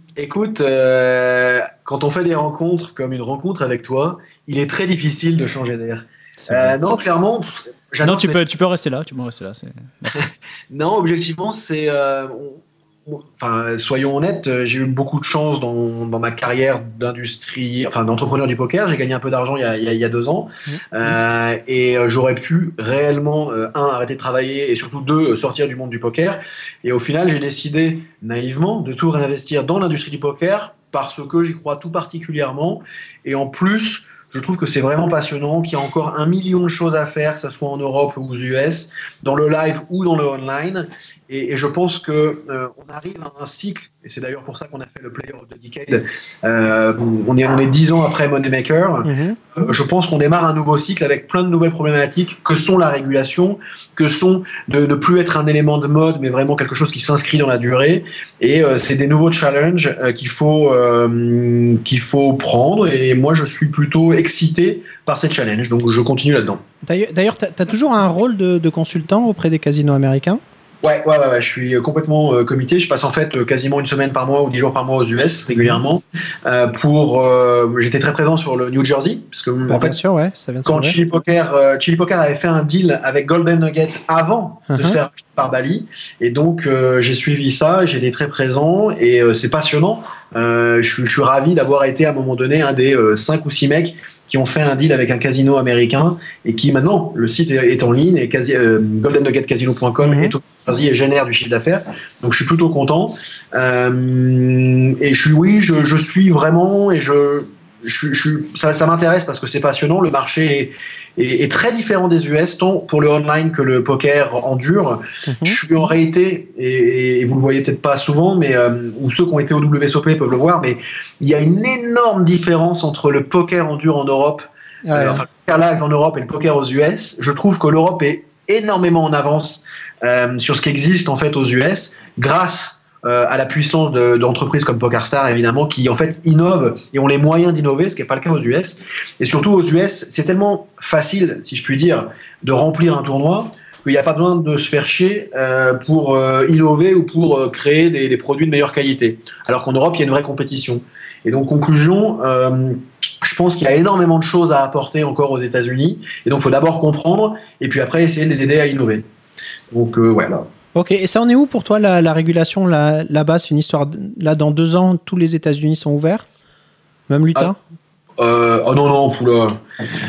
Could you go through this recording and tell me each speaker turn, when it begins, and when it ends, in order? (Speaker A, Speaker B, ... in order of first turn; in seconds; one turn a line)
Speaker A: 0.2-8.4
Speaker B: 6.4-6.8
Speaker B: 8.0-10.3
Speaker A: 10.1-66.6
Speaker C: 49.0-49.6
Speaker C: 66.8-70.4
Speaker A: 70.8-80.0
Speaker C: 79.7-81.0
Speaker A: 80.7-159.1
Speaker C: 84.7-85.0
Speaker C: 100.0-100.3
Speaker C: 115.3-115.6
Speaker C: 124.9-125.2
Speaker A: 159.7-160.5
Speaker C: 160.8-166.2
Speaker C: 167.1-167.6
Speaker A: 168.2-169.6